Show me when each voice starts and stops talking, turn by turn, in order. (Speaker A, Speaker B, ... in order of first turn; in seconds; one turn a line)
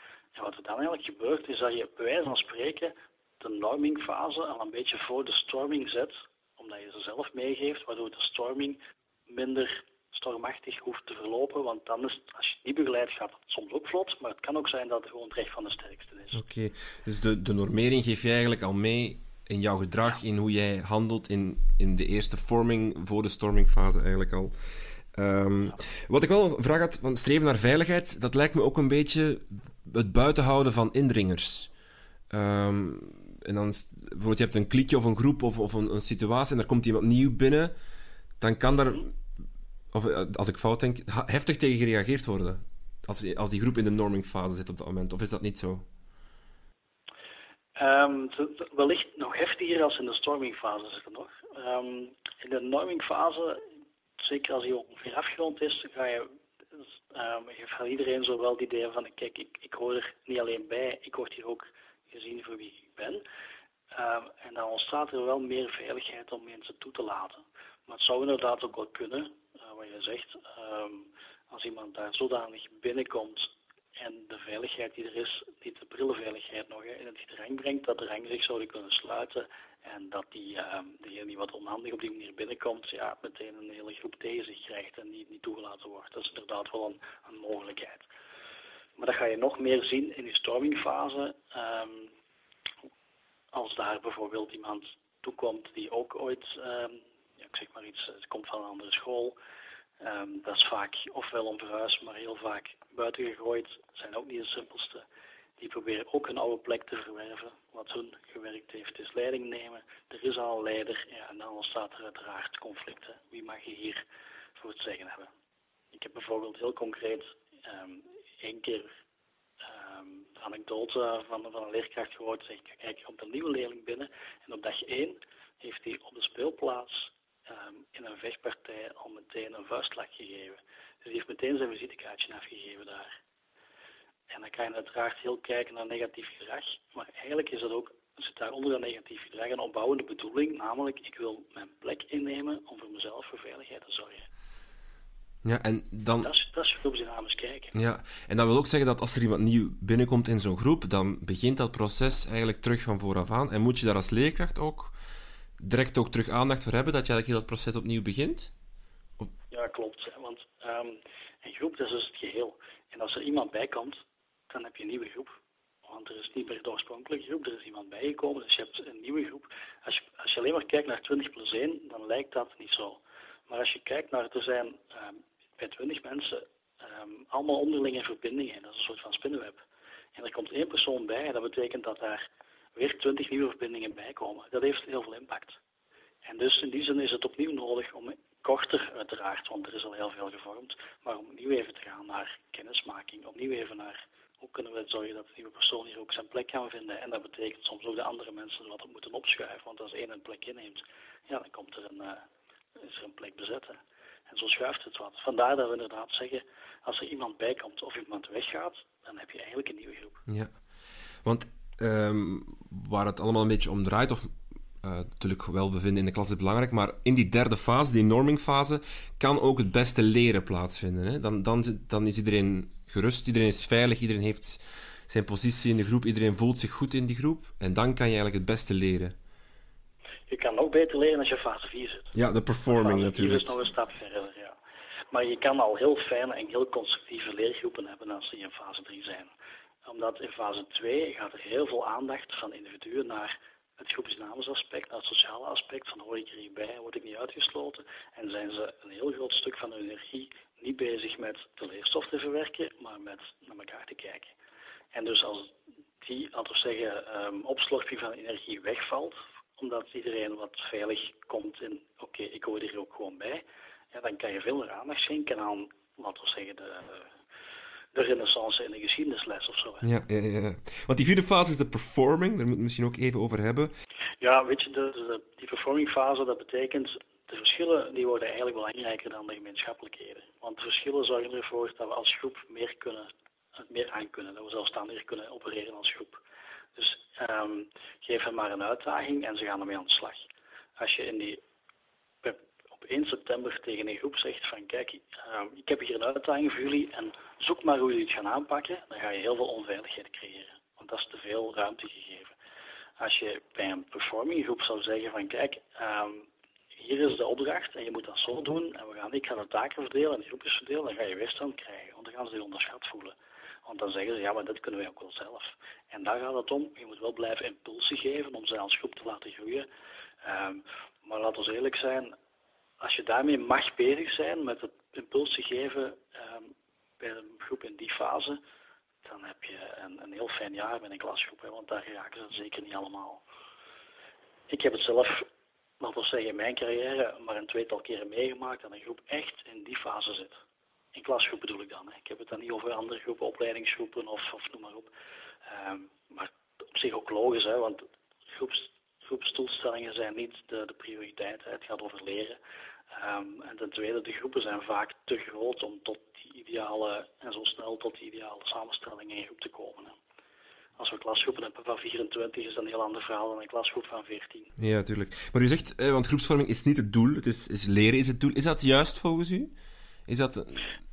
Speaker A: 0.3-16.4
Speaker B: 16.3-31.7
Speaker B: 32.3-37.7
Speaker B: 38.4-39.2
Speaker B: 39.9-45.8
Speaker A: 47.8-53.6
Speaker A: 54.2-63.2
Speaker A: 63.9-88.1
Speaker A: 89.0-92.1
Speaker A: 93.5-99.4
Speaker A: 100.0-105.0
Speaker A: 105.6-114.0
Speaker A: 114.5-115.3
Speaker A: 115.9-118.9
Speaker A: 119.6-133.2
Speaker A: 134.3-144.3
Speaker B: 145.4-146.3
Speaker A: 146.2-147.8
Speaker B: 147.7-154.9
Speaker B: 155.6-158.5
Speaker A: 159.5-179.6
Speaker A: 180.2-182.2
Speaker A: 182.8-185.6
Speaker A: 186.2-202.2
Speaker A: 202.8-210.2
Speaker B: 210.3-210.5
Speaker B: 211.2-229.1
Speaker A: 230.3-232.1
Speaker B: 232.1-233.5
Speaker A: 232.7-234.6
Speaker A: 235.1-239.3
Speaker A: 239.8-254.3
Speaker A: 254.9-267.1
Speaker A: 267.9-269.9
Speaker B: 269.8-273.7
Speaker A: 274.2-286.2
Speaker A: 286.8-291.4
Speaker A: 292.2-302.4
Speaker A: 303.0-319.7
Speaker A: 320.2-322.1
Speaker A: 322.8-328.4
Speaker A: 329.0-333.2
Speaker A: 334.5-335.3
Speaker A: 335.8-340.4
Speaker A: 340.9-344.9
Speaker A: 345.5-352.4
Speaker A: 352.9-359.9
Speaker A: 360.8-364.5
Speaker B: 364.6-369.5
Speaker B: 370.1-370.8